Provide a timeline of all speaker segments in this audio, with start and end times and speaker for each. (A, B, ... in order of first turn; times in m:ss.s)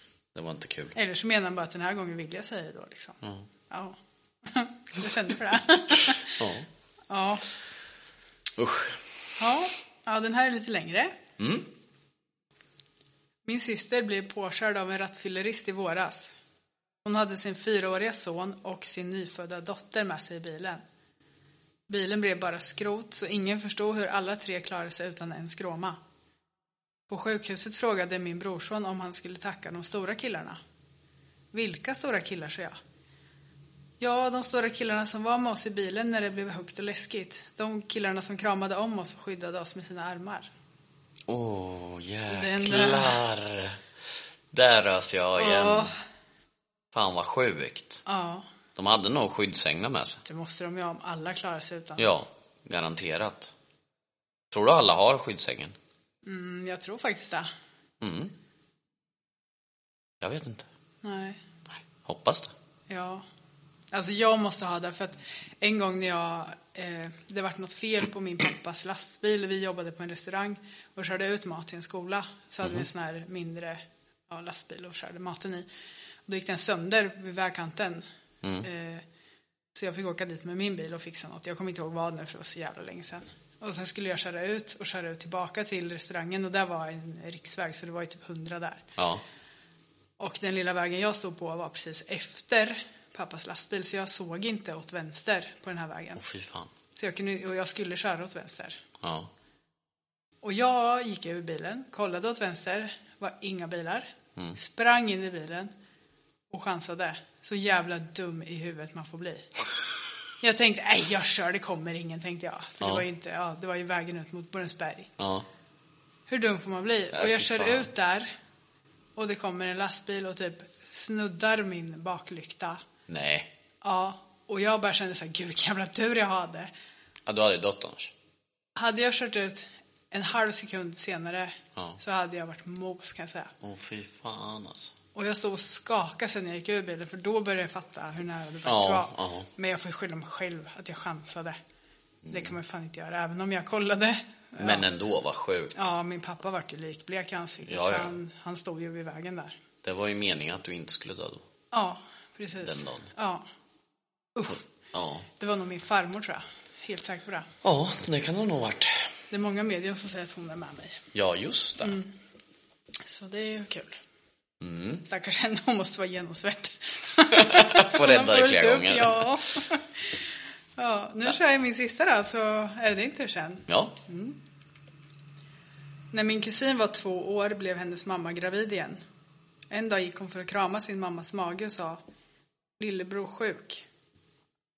0:00.3-0:01.0 A
0:01.0-0:03.2 B
0:03.7-0:06.3 B
0:06.3-0:06.7 A
0:07.1-0:07.4 B
0:08.6-0:09.0 A
0:09.4-0:11.2 B
0:11.4-0:11.7 A
0:13.4-0:16.3 B
0:17.0-0:20.8 B
0:21.9-0:26.0 B
0:27.1-0:30.6 B
0:31.5-0:32.8 B
0:34.0-0:40.5 B
0:41.3-0:43.8 A
0:42.3-0:43.2 B
0:44.5-0:45.9 A
0:45.4-0:45.9 B
0:46.9-0:48.0 A
0:48.1-0:48.5 B
0:48.8-0:50.2 A
0:50.2-0:52.1 B
0:52.0-0:53.5 A
0:54.5-0:55.8 A
0:56.2-0:57.5 B
0:58.0-0:58.3 A
1:00.2-1:00.7 A
1:01.0-1:01.4 B
1:02.0-1:02.5 A
1:02.9-1:03.2 B
1:03.9-1:15.7 B
1:12.6-1:12.9 A
1:16.3-1:18.1 B
1:18.6-1:19.0 B
1:19.8-1:28.8 B
1:29.0-1:29.2 A
1:30.2-1:36.2 B
1:36.2-1:36.7 A
1:37.0-1:38.8 B
1:39.0-1:39.3 A
1:40.4-1:45.7 B
1:46.5-1:49.5 B
1:50.4-1:55.1 B
1:55.2-1:55.4 A
1:56.3-1:58.3 B
1:57.1-1:57.9 A
1:59.2-2:02.8 B
2:03.1-2:03.5 A
2:03.8-2:06.7 B
2:07.3-2:08.1 A
2:08.8-2:13.5 B
2:13.6-2:14.9 A
2:15.2-2:21.6 B
2:18.6-2:19.5 A
2:22.2-2:22.6 A
2:22.3-2:24.9 B
2:24.6-2:25.9 A
2:25.8-2:29.6 B
2:27.7-2:28.1 A
2:29.8-2:31.4 A
2:31.7-2:33.5 B
2:32.6-2:33.1 A
2:34.4-2:34.6 B
2:34.5-2:35.3 A
2:35.4-2:37.5 B
2:37.6-2:39.0 A
2:39.3-2:41.0 B
2:41.1-2:42.0 A
2:41.8-2:42.1 B
2:43.0-2:44.0 B
2:44.6-2:45.0 A
2:45.0-2:49.8 B
2:47.3-2:49.3 A
2:50.8-2:54.4 B
2:53.7-2:54.0 A
2:56.1-2:59.0 B
2:59.7-3:02.0 B
3:02.8-3:03.8 B